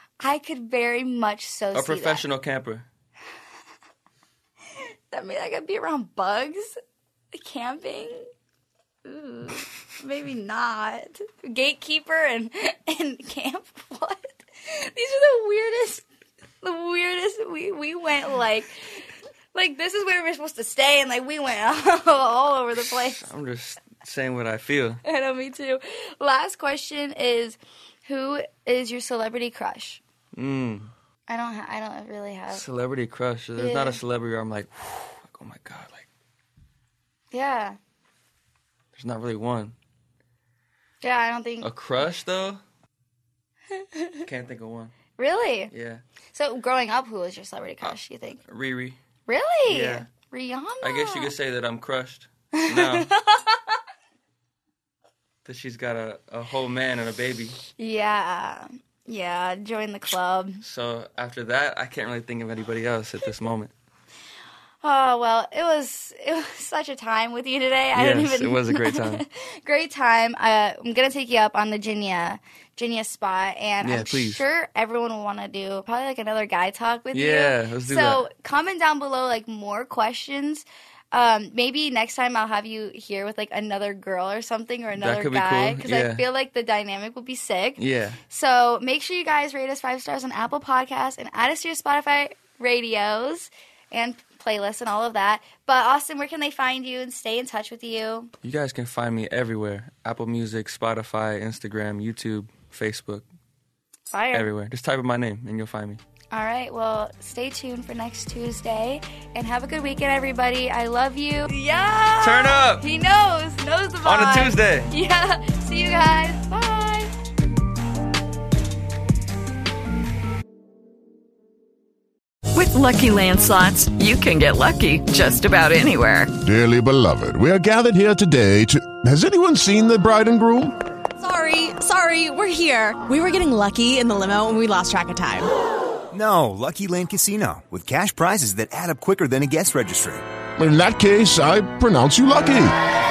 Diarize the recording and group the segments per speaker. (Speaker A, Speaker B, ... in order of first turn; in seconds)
Speaker A: 0.2-2.2, 4.8-6.7, 7.3-8.3, 9.0-16.0, 16.6-23.3, 25.0-30.0, 31.3-32.6, 33.5-34.0, 37.3-37.8, 41.0-41.7, 43.7-44.2, 45.2-45.7, 46.3-48.4, 49.3-51.3, 52.5-53.6, 57.8-60.6, 64.8-98.3, 104.1-104.5, 106.3-117.2
Speaker B: 1.7-2.9, 22.8-25.0, 30.3-30.9, 32.5-36.1, 38.9-39.7, 41.6-42.6, 44.2-44.9, 45.7-46.0, 47.8-49.0, 49.7-50.1, 50.8-53.1, 55.4-57.6, 60.6-63.7, 67.9-69.2, 73.8-74.4, 77.1-78.3, 84.9-86.3, 87.8-88.2, 98.4-103.2, 104.3-106.0, 112.2-112.8, 114.0-114.9
Speaker C: 122.5-126.3
Speaker D: 126.4-130.7, 140.6-142.7
Speaker E: 131.2-135.4
Speaker F: 136.1-140.2